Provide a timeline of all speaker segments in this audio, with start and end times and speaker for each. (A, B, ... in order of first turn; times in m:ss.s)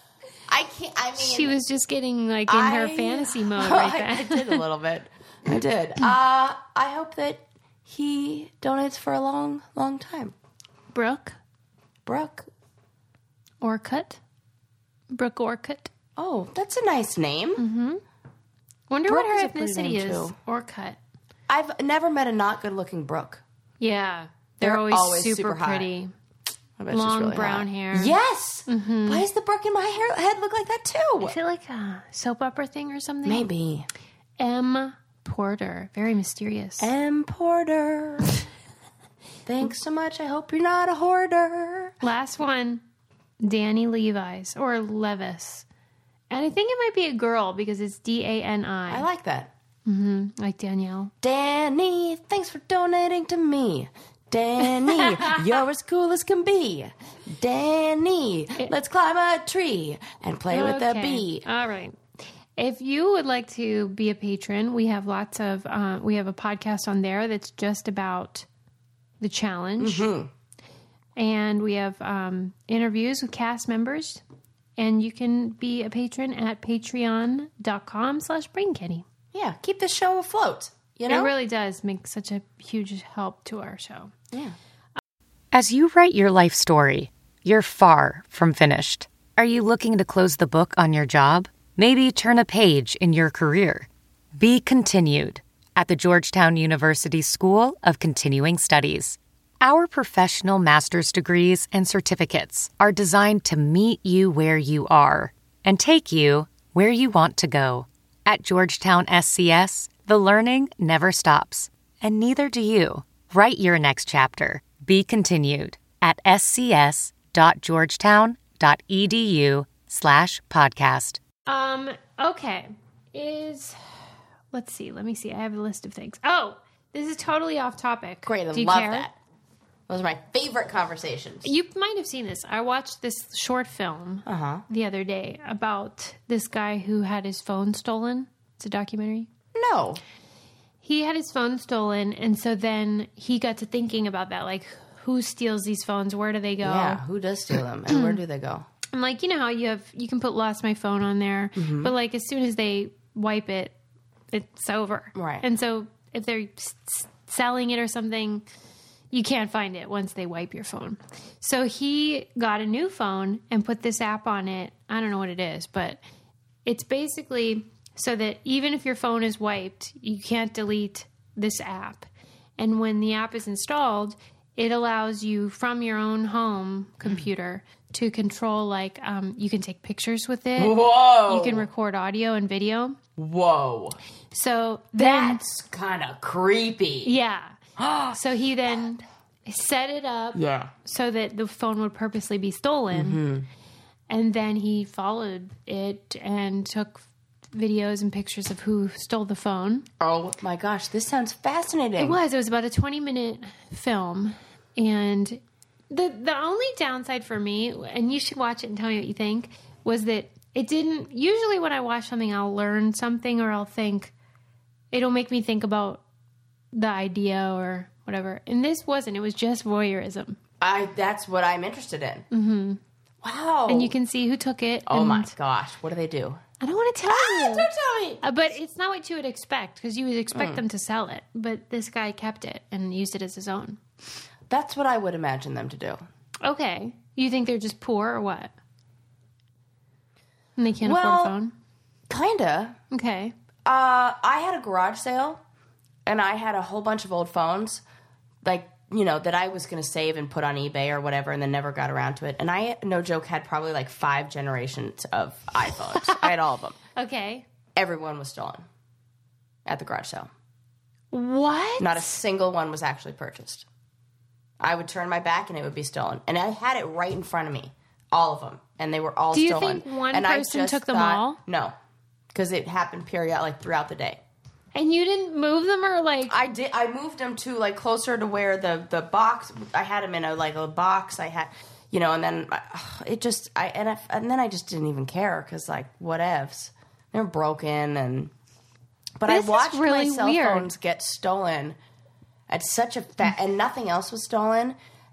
0:00.5-0:01.5 A
0:01.1-0:04.6 B
0:02.5-0:10.3 A
0:10.9-0:11.4 B
0:12.0-0:12.5 A
0:13.6-0:14.2 B
0:15.1-0:15.9 B
0:16.2-0:17.6 A
0:17.6-0:18.0 B
0:18.9-0:21.0 B
0:19.1-0:20.3 A
0:21.5-0:23.4 A
0:23.8-0:26.1 B
0:24.6-0:25.9 A
0:26.8-0:31.4 A
0:26.9-0:28.2 B
0:28.7-0:29.2 B
0:31.2-0:33.4 B
0:33.2-0:33.9 A
0:34.4-0:36.9 B
0:36.8-0:38.3 A
0:39.4-0:42.0 A
0:42.0-0:42.8 B
0:43.4-0:45.6 B
0:46.3-0:49.1 B
0:48.9-0:49.5 A
0:49.8-0:51.1 B
0:51.2-1:01.4 A
0:55.0-0:55.3 B
1:00.5-1:02.0 B
1:02.6-1:08.5 B
1:09.2-1:10.0 B
1:09.8-1:10.3 A
1:11.2-1:14.2 B
1:14.8-1:19.0 B
1:19.3-1:21.3 A
1:21.1-1:24.1 B
1:25.5-2:01.2 C
2:01.4-2:03.8 B
2:04.5-2:09.1 B
2:08.2-2:09.1 A
2:09.9-2:11.5 A
2:11.4-2:19.3 B
2:14.2-2:14.6 A
2:19.5-2:20.0 A
2:20.8-2:27.0 B
2:26.6-2:28.6 A
2:28.9-2:33.7 B
2:31.6-2:31.9 A
2:34.3-2:38.4 B
2:35.1-2:35.4 A
2:39.1-2:46.0 B
2:46.6-3:03.0 B
3:00.6-3:01.7 A
3:03.2-3:04.0 A
3:04.3-3:05.4 B
3:05.0-3:07.1 A
3:07.0-3:07.6 B
3:07.8-3:08.2 A
3:08.1-3:13.2 B
3:10.3-3:10.7 A
3:12.9-3:13.5 A
3:14.1-3:19.8 B
3:20.0-3:22.2 A
3:22.0-3:25.4 B
3:25.9-3:34.1 B
3:34.9-3:36.0 B
3:36.7-3:40.4 B
3:40.6-3:42.2 A
3:42.3-3:42.8 B
3:43.2-3:43.9 A
3:43.7-3:45.3 B
3:44.9-3:46.4 A
3:46.6-3:47.7 B
3:47.1-3:48.2 A
3:48.2-3:53.8 B
3:50.3-3:50.6 A
3:54.5-3:56.0 A
3:56.4-3:58.5 B
4:00.6-4:01.5 B
4:00.8-4:01.3 A
4:02.1-4:02.8 A
4:02.9-4:03.3 B
4:03.6-4:05.4 A
4:06.0-4:07.8 A
4:08.4-4:16.8 A
4:17.0-4:17.4 B
4:17.8-4:18.6 A
4:19.6-4:20.3 A
4:21.1-4:22.1 B
4:21.8-4:23.6 A
4:24.6-4:31.7 A
4:29.3-4:31.4 B
4:32.3-4:34.2 A
4:34.7-4:36.3 B
4:36.2-4:48.3 A
4:49.2-4:51.8 A
4:49.3-4:50.7 B
4:52.5-4:54.8 A